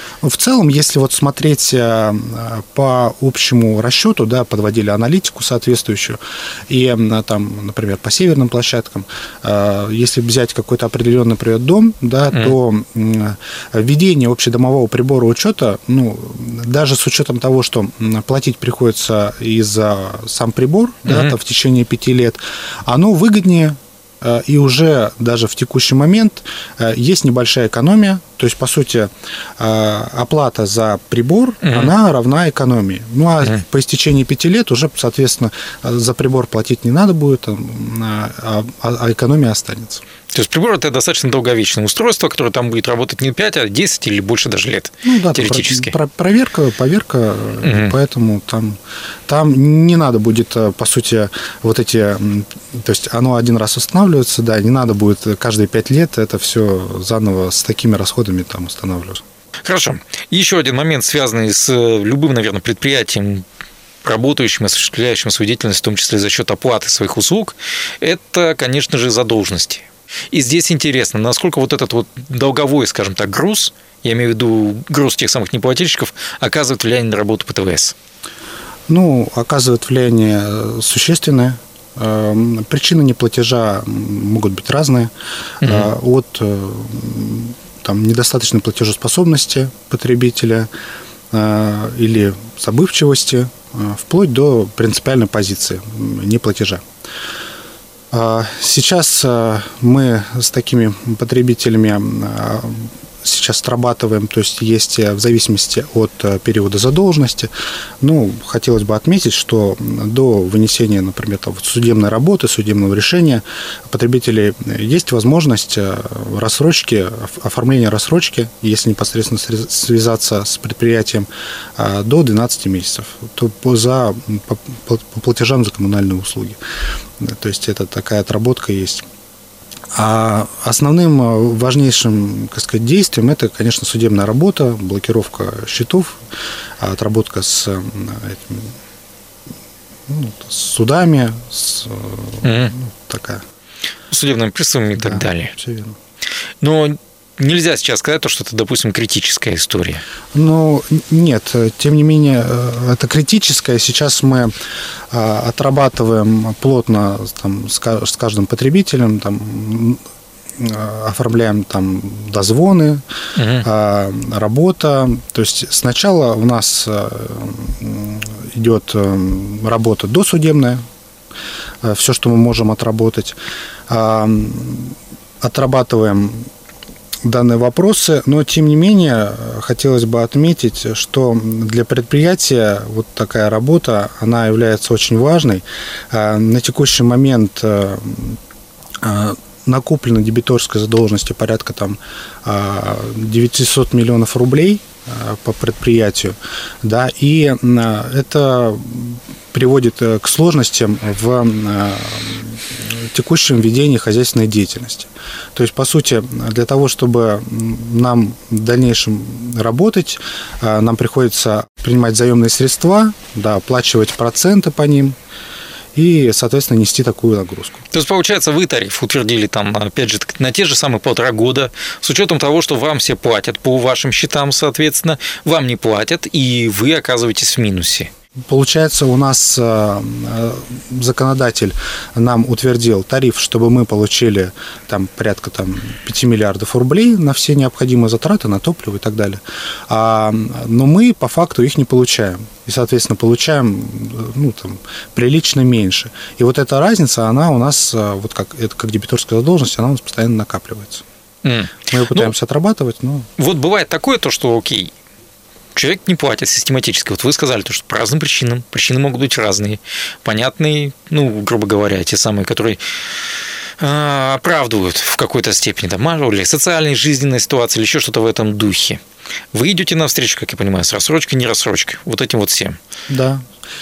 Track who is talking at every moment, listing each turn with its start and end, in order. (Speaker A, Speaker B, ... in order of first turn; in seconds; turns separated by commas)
Speaker A: 0.2-40.0, Speaker B: 12.3-12.6, Speaker B: 21.0-21.3, Speaker B: 31.6-31.9, Speaker B: 40.3-45.9, Speaker A: 45.0-59.2, Speaker B: 47.6-47.9, Speaker B: 59.6-63.5, Speaker B: 64.0-77.9, Speaker A: 78.9-90.7, Speaker B: 85.6-85.9, Speaker A: 91.3-96.8, Speaker A: 98.1-107.5, Speaker A: 108.0-126.6, Speaker A: 127.2-129.0, Speaker A: 129.9-136.2, Speaker A: 136.8-138.7, Speaker A: 140.1-143.4, Speaker B: 142.4-142.7, Speaker B: 144.1-145.6, Speaker A: 144.9-145.9, Speaker B: 146.6-150.0, Speaker A: 150.3-154.5, Speaker A: 155.1-160.0, Speaker A: 160.6-163.0, Speaker B: 163.3-163.7, Speaker A: 163.6-170.8, Speaker A: 171.8-173.4, Speaker A: 173.9-176.5, Speaker A: 177.2-188.4, Speaker A: 189.0-215.2, Speaker A: 215.9-217.8, Speaker B: 217.9-228.1, Speaker A: 228.5-251.0, Speaker B: 251.4-252.3, Speaker A: 251.9-253.3, Speaker B: 253.4-254.9, Speaker B: 255.7-262.8, Speaker B: 263.8-269.0, Speaker B: 269.5-272.8, Speaker A: 273.1-273.4